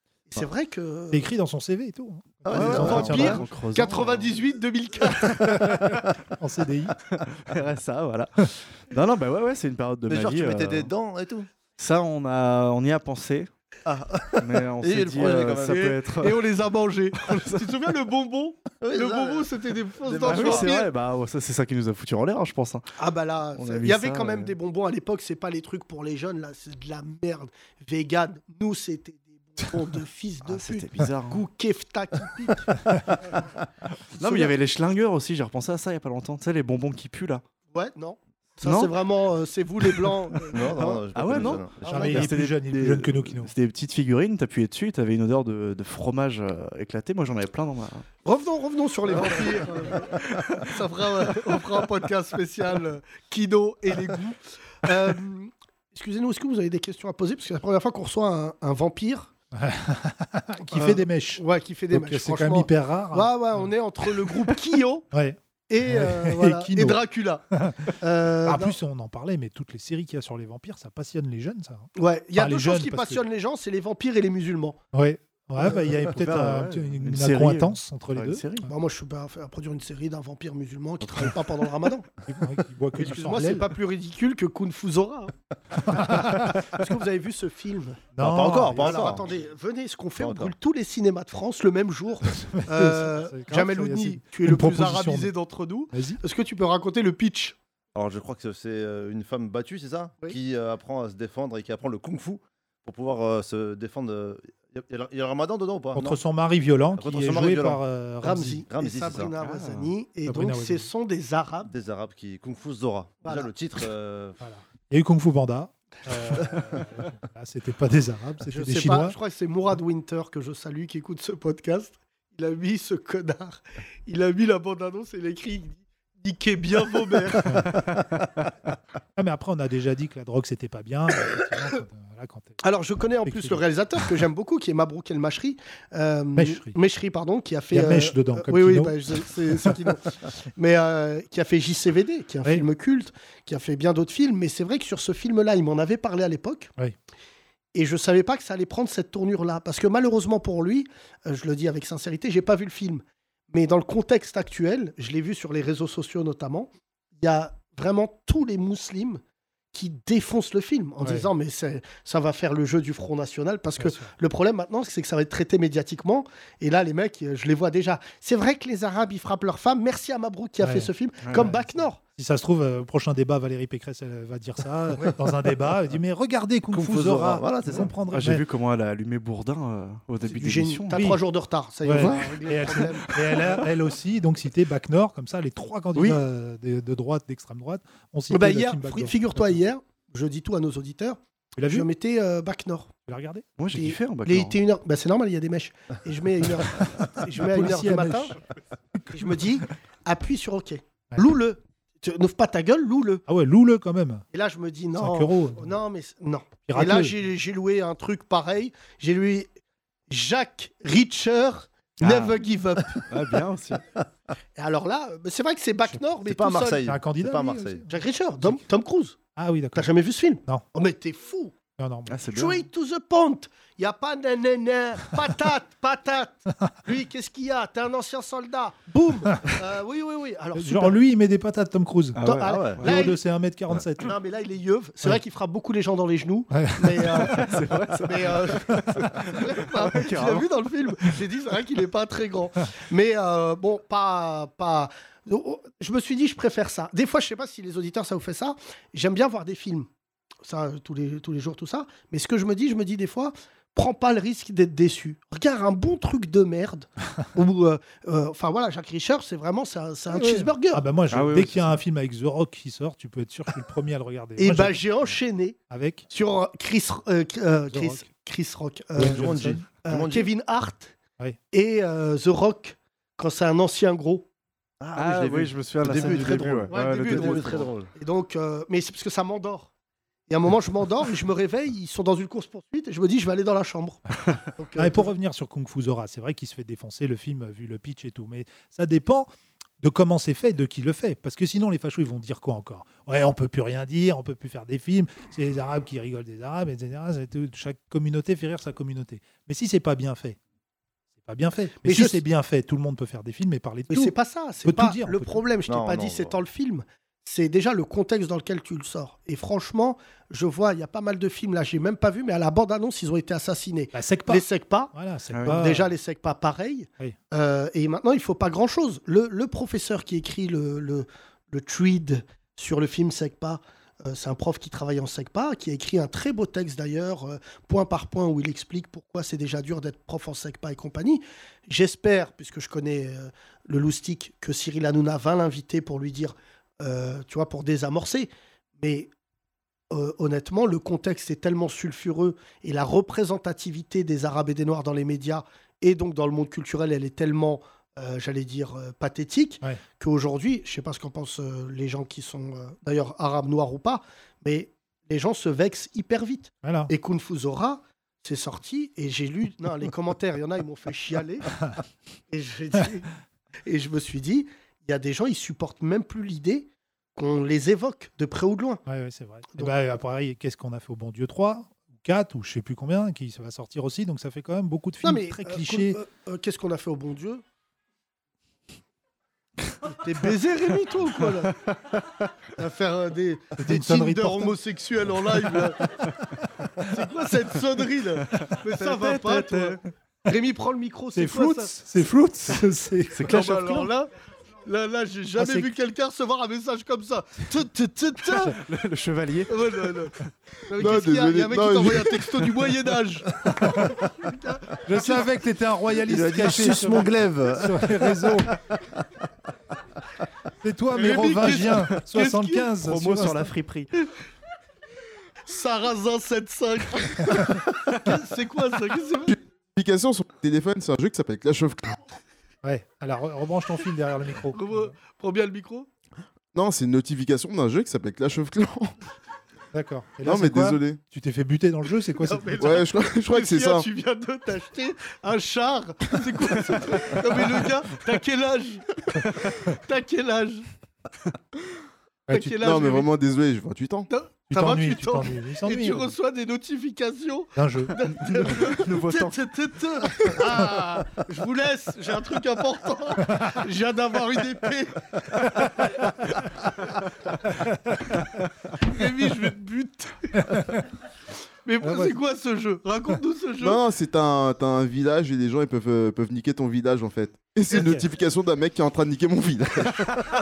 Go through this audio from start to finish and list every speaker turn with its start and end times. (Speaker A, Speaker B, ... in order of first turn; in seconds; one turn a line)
Speaker A: 0.3-1.3
Speaker B: 1.1-3.4
Speaker C: 2.5-3.4
Speaker D: 2.5-4.3
Speaker A: 2.6-5.8
Speaker B: 5.6-7.0
Speaker D: 7.1-10.9
Speaker C: 10.1-11.5
Speaker D: 11.8-13.5
Speaker C: 13.8-15.8
Speaker D: 14.4-16.4
Speaker A: 15.6-20.9
Speaker D: 17.2-17.7
Speaker C: 18.8-19.5
Speaker C: 20.0-20.7
Speaker D: 20.2-22.9
Speaker A: 23.0-32.8
Speaker D: 23.6-24.5
Speaker D: 30.4-31.4
Speaker D: 34.1-37.4
Speaker A: 34.2-34.5
Speaker A: 37.7-42.2
Speaker D: 38.6-38.9
Speaker C: 40.5-42.2
Speaker D: 41.1-48.0
Speaker B: 41.8-43.5
Speaker A: 48.2-59.3
Speaker C: 49.1-50.2
Speaker B: 59.5-63.7
Speaker A: 60.7-65.0
Speaker B: 65.1-67.0
Speaker A: 65.7-67.4
Speaker B: 67.5-67.9
Speaker A: 68.0-68.8
Speaker B: 68.4-73.2
Speaker A: 72.0-74.8
Speaker B: 74.9-78.5
Speaker D: 76.1-78.7
Speaker A: 78.7-82.1
Speaker B: 82.2-83.7
Speaker A: 82.9-85.3
Speaker B: 85.8-86.6
Speaker A: 85.9-88.1
Speaker B: 88.2-89.2
Speaker C: 88.2-89.3
Speaker A: 88.8-97.5
Speaker C: 90.2-90.5
Speaker B: 92.3-95.3
Speaker B: 95.9-96.2
Speaker C: 97.9-106.2
Speaker B: 105.9-108.6
Speaker C: 107.0-107.8
Speaker A: 108.2-111.7
Speaker C: 108.7-109.3
Speaker D: 109.4-109.9
Speaker B: 110.2-110.9
Speaker C: 111.7-114.4
Speaker A: 113.2-113.5
Speaker B: 114.4-119.2
Speaker A: 118.5-127.5
Speaker B: 127.5-127.8
Speaker B: 129.2-132.6
Speaker A: 132.6-146.7
Speaker B: 133.2-133.6
Speaker B: 136.3-136.8
Speaker B: 137.7-139.0
Speaker A: 147.7-159.2
Speaker A: 159.7-172.0
Speaker B: 161.0-161.3
Speaker B: 163.8-164.1
Speaker B: 170.6-171.6
Speaker D: 171.2-171.5
Speaker B: 172.2-178.4
Speaker C: 176.7-177.9
Speaker D: 178.1-181.0
Speaker A: 180.3-183.5
Speaker B: 180.9-181.2
Speaker B: 181.8-189.6
Speaker D: 182.0-182.3
Speaker D: 183.1-183.6
Speaker A: 188.3-192.9
Speaker B: 191.6-191.9
Speaker B: 193.1-193.4
Speaker D: 193.6-194.6
Speaker A: 193.7-198.3
Speaker B: 197.3-198.4
Speaker A: 199.1-203.2
Speaker B: 203.3-204.2
Speaker A: 204.3-209.5
Speaker B: 205.0-205.7
Speaker B: 206.7-207.1
Speaker A: 210.1-213.0
Speaker D: 212.0-212.3
Speaker D: 213.1-213.8
Speaker A: 214.6-216.8
Speaker C: 216.2-217.8
Speaker B: 216.8-218.6
Speaker A: 217.9-219.2
Speaker B: 219.3-219.9
Speaker A: 219.7-221.5
Speaker B: 221.8-222.2
Speaker D: 222.1-222.7
Speaker A: 222.3-231.0
Speaker B: 230.5-234.2
Speaker D: 232.2-232.8
Speaker A: 232.2-233.2
Speaker C: 232.4-232.8
Speaker A: 234.0-237.5
Speaker B: 236.5-237.4
Speaker D: 237.3-240.5
Speaker A: 238.0-249.9
Speaker A: 250.4-260.8
Speaker B: 260.1-264.8
Speaker D: 261.1-261.7
Speaker A: 264.4-265.6
Speaker B: 265.7-266.1
Speaker A: 266.1-270.9
Speaker B: 267.7-268.0
Speaker B: 269.0-269.6
Speaker C: 269.0-270.3
Speaker A: 271.5-274.2
Speaker C: 274.8-277.9
Speaker D: 274.9-277.7
Speaker A: 276.0-279.7
Speaker A: 280.3-284.0
Speaker A: 284.6-285.1
Speaker B: 284.8-289.3
Speaker B: 289.8-300.4
Speaker B: 301.2-305.4
Speaker A: 301.8-302.2
Speaker A: 303.9-314.9
Speaker C: 305.7-306.4
Speaker B: 313.9-315.9
Speaker D: 315.3-315.6
Speaker A: 315.4-339.1
Speaker A: 339.9-361.5
Speaker B: 356.6-356.9
Speaker A: 362.3-363.1
Speaker A: 363.6-368.8
Speaker B: 368.9-376.0
Speaker A: 375.0-377.4
Speaker A: 379.9-381.5
Speaker D: 381.7-382.0
Speaker A: 382.6-385.9
Speaker B: 383.6-384.6
Speaker A: 386.8-391.7
Speaker D: 388.4-389.8
Speaker B: 391.1-393.3
Speaker D: 393.1-393.9
Speaker A: 393.2-394.1
Speaker A: 394.6-398.6
Speaker B: 395.3-395.7
Speaker D: 398.4-399.9
Speaker A: 399.5-400.1
Speaker A: 400.7-405.3
Speaker E: 400.8-402.5
Speaker B: 404.8-408.6
Speaker C: 406.1-408.4
Speaker B: 410.6-413.5
Speaker A: 410.9-412.7
Speaker D: 412.8-413.9
Speaker A: 415.4-419.4
Speaker E: 419.8-422.0
Speaker B: 422.6-424.9
Speaker A: 424.5-425.9
Speaker E: 426.5-428.9
Speaker B: 429.7-432.8
Speaker E: 430.2-431.0
Speaker A: 432.2-438.9
Speaker E: 432.6-433.8
Speaker A: 439.6-440.7
Speaker B: 442.3-442.5
Speaker A: 442.3-443.1
Speaker E: 442.6-444.1
Speaker A: 444.1-455.3
Speaker B: 444.5-446.1
Speaker B: 447.6-447.9
Speaker D: 448.2-449.5
Speaker B: 457.7-458.1
Speaker A: 458.8-460.4
Speaker B: 460.4-460.8
Speaker A: 461.6-463.8
Speaker B: 461.8-462.2
Speaker E: 463.6-470.1
Speaker B: 467.7-468.1